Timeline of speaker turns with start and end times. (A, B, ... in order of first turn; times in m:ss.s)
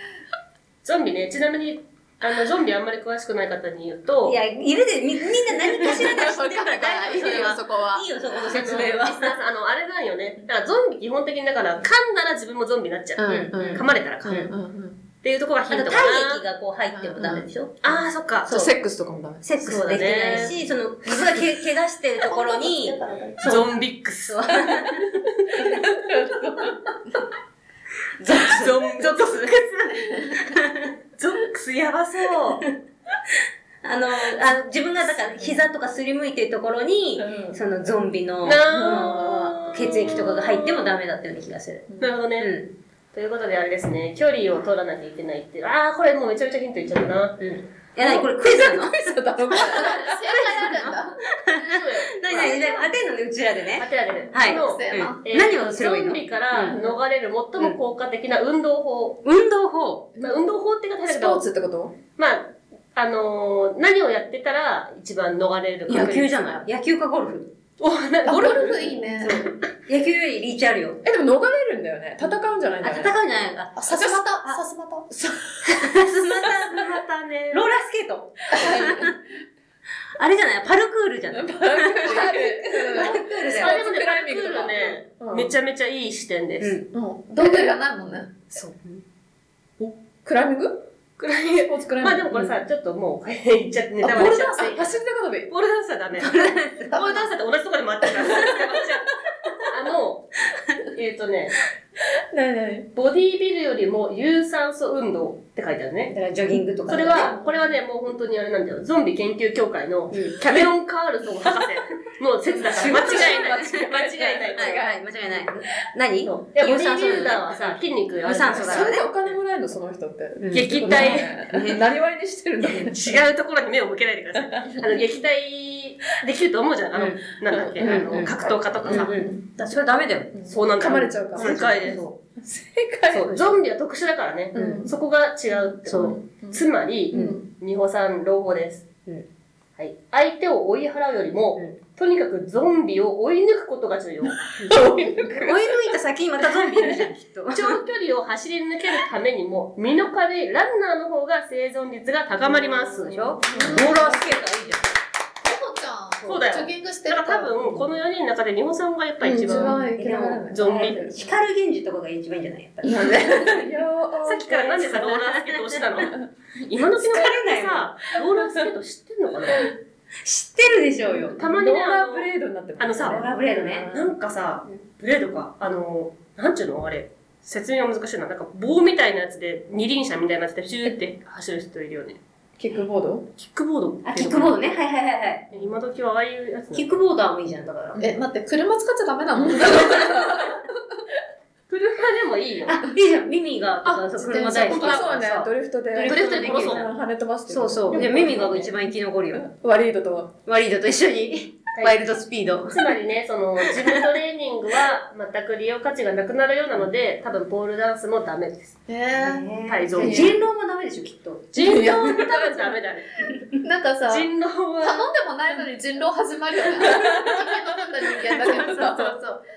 0:00.8-0:04.4 A
0:04.2-0:09.3 B
0:05.8-0:08.9 C
0:08.4-0:14.5 A
0:13.2-0:15.0 C
0:13.3-0:14.5 B
0:15.2-0:16.4 A
0:15.7-0:17.9 B
0:16.9-0:17.5 C
0:17.3-0:18.5 A
0:18.4-0:19.4 C
0:18.5-0:18.7 B
0:19.4-0:23.7 B
0:19.6-0:20.6 A
0:20.3-0:20.5 C
0:22.2-0:23.6 D
0:23.4-0:25.6 A
0:24.2-0:25.0 B
0:26.0-0:26.7 C
0:28.2-0:29.4 B
0:28.3-0:30.5 A
0:30.3-0:30.9 B
0:31.2-0:32.6 A
0:33.8-0:42.7 B
0:38.4-0:40.8 A
0:38.7-0:39.3 C
0:42.0-0:42.6 A
0:43.1-0:47.4 A
0:47.4-0:56.8 B
0:48.0-0:51.1 C
0:51.6-0:52.9 A
0:53.8-0:59.2 A
0:54.4-0:55.2 D
0:56.7-0:57.0 C
0:59.2-1:00.1 B
1:00.2-1:00.4 C
1:00.2-1:01.4 A
1:01.0-1:02.0 C
1:02.2-1:06.6 A
1:05.9-1:07.5 B
1:07.8-1:09.5 A
1:08.2-1:09.4 D
1:09.3-1:11.0 B
1:11.0-1:13.2 C
1:12.8-1:13.8 B
1:13.8-1:15.1 D
1:13.9-1:14.2 C
1:15.1-1:15.8 C
1:15.6-1:17.0 B
1:16.4-1:17.6 A
1:17.5-1:19.1 B
1:18.5-1:19.2 C
1:20.2-1:23.8 B
1:21.3-1:25.5 C
1:23.5-1:26.7 A
1:26.6-1:26.8 B
1:26.9-1:28.3 D
1:27.4-1:27.8 C
1:29.8-1:30.8 C
1:31.2-1:39.1 A
1:31.6-1:32.3 C
1:34.0-1:34.8 D
1:34.2-1:35.5 C
1:36.2-1:36.9 B
1:36.9-1:37.3 D
1:39.6-1:41.6 A
1:42.3-1:42.9 C
1:42.9-1:46.1 A
1:46.1-1:47.4 B
1:46.9-1:54.9 A
1:50.1-1:50.6 B
1:52.5-1:55.0 C
1:52.6-1:53.7 B
1:54.5-1:59.1 B
1:56.2-1:59.0 A
1:58.4-2:03.2 C
2:00.4-2:01.8 B
2:00.5-2:01.3 A
2:02.6-2:09.3 A
2:04.5-2:04.9 C
2:06.9-2:07.2 B
2:07.5-2:09.3 C
2:07.8-2:08.3 B
2:08.9-2:10.3 B
2:10.4-2:12.0 A
2:10.8-2:13.4 C
2:11.4-2:12.1 B
2:13.1-2:18.8 A
2:14.5-2:14.9 C
2:14.5-2:14.9 B
2:15.8-2:16.2 B
2:15.9-2:17.4 C
2:17.1-2:17.4 B
2:19.8-2:24.5 A
2:24.6-2:25.6 C
2:25.3-2:27.8 B
2:26.8-2:33.7 A
2:32.9-2:34.9 B
2:33.5-2:34.1 C
2:33.5-2:34.2 D
2:35.4-2:37.8 D
2:36.2-2:39.8 A
2:39.2-2:41.1 C
2:39.6-2:43.6 B
2:40.5-2:41.2 A
2:42.8-2:45.1 C
2:44.2-2:49.7 A
2:44.9-2:45.6 B
2:47.0-2:47.9 B
2:50.2-2:51.4 B
2:51.1-2:54.1 C
2:51.4-3:02.2 A
2:53.0-2:53.9 B
3:02.6-3:03.3 C
3:03.4-3:04.6 A
3:04.0-3:05.5 B
3:05.5-3:07.0 A
3:06.7-3:08.0 B
3:08.0-3:10.5 D
3:09.4-3:10.6 C
3:11.7-3:12.8 A
3:12.7-3:16.9 B
3:14.2-3:20.3 C
3:14.3-3:14.5 D
3:14.6-3:15.1 A
3:16.1-3:16.8 A
3:17.5-3:19.5 B
3:20.4-3:22.9 B
3:21.7-3:22.0 A
3:22.7-3:28.8 A
3:28.9-3:29.4 D
3:29.2-3:32.1 B
3:29.7-3:30.3 A
3:30.0-3:30.3 C
3:31.5-3:33.3 A
3:31.6-3:32.7 C
3:33.6-3:34.3 D
3:34.0-3:35.1 A
3:34.8-3:39.2 D
3:36.9-3:37.4 C
3:38.3-3:38.7 B
3:38.4-3:39.4 C